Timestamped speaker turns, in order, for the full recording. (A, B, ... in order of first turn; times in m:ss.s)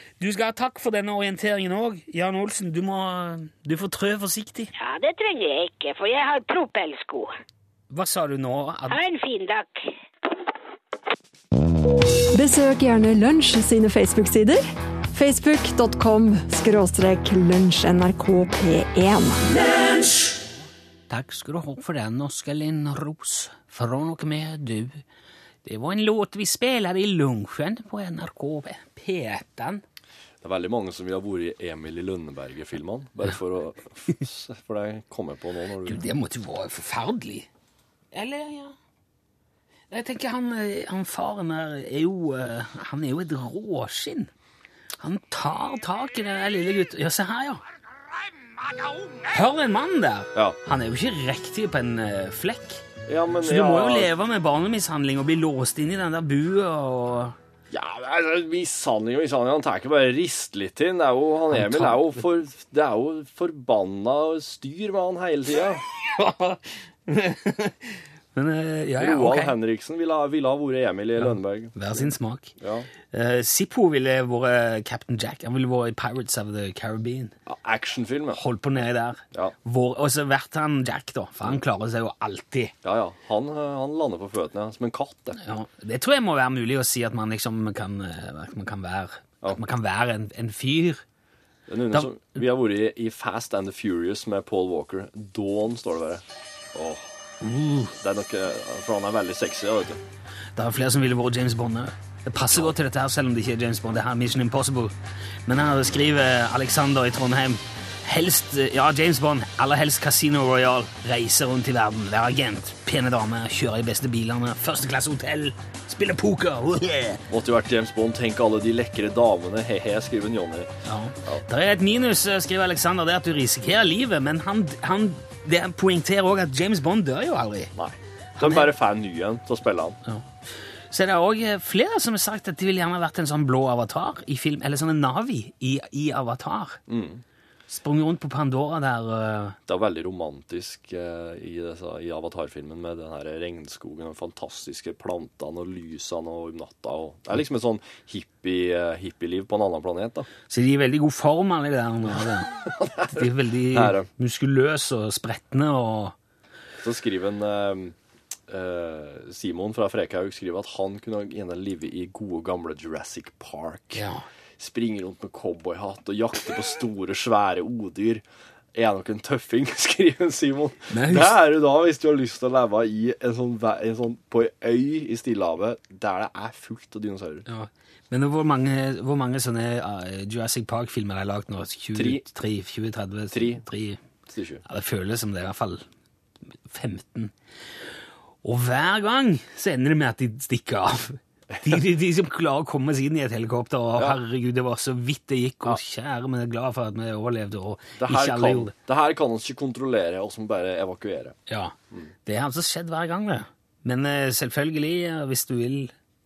0:00.2-0:04.7 A
0:04.8-0:07.3 B
0:07.9-0:09.0 A
0:08.9-0:09.9 B
0:12.3-0:19.5 C
0:21.1-0:25.0 A
0:25.6-0:29.8 A
0:30.4-0:36.1 D
0:35.9-0:37.5 A
0:38.1-0:38.8 A
0:39.9-0:44.3 A
0:45.0-0:47.6 A
0:49.2-0:52.8 A
0:53.1-0:54.1 D
0:53.4-0:57.4 A
0:57.7-1:05.8 D
1:01.5-1:02.2 A
1:06.0-1:09.6 A
1:09.0-1:12.9 D
1:11.2-1:12.5 A
1:13.1-1:17.3 A
1:17.4-1:18.4 D
1:18.3-1:22.7 A
1:22.8-1:25.4 D
1:25.4-1:31.0 A
1:31.7-1:36.2 D
1:36.7-1:37.1 D
1:37.4-1:37.9 A
1:38.0-1:40.0 D
1:40.6-1:44.9 A
1:45.5-1:57.2 A
1:57.3-2:00.7 D
2:00.8-2:07.7 A
2:07.8-2:10.0 D
2:08.4-2:08.7 A
2:10.9-2:16.8 A
2:16.9-2:17.2 D
2:17.7-2:19.6 A
2:19.7-2:30.3 D
2:30.5-2:36.1 A
2:32.6-2:34.1 D
2:36.8-2:37.9 D
2:38.5-2:44.0 D
2:43.9-2:44.2 A
2:44.6-2:57.4 D
2:50.9-2:51.4 A
2:57.5-3:04.0 A
3:01.9-3:02.2 D
3:03.3-3:03.6 D
3:04.3-3:04.6 D
3:04.6-3:05.8 A
3:06.7-3:07.3 A
3:08.4-3:18.7 A
3:18.0-3:21.4 D
3:21.5-3:25.9 A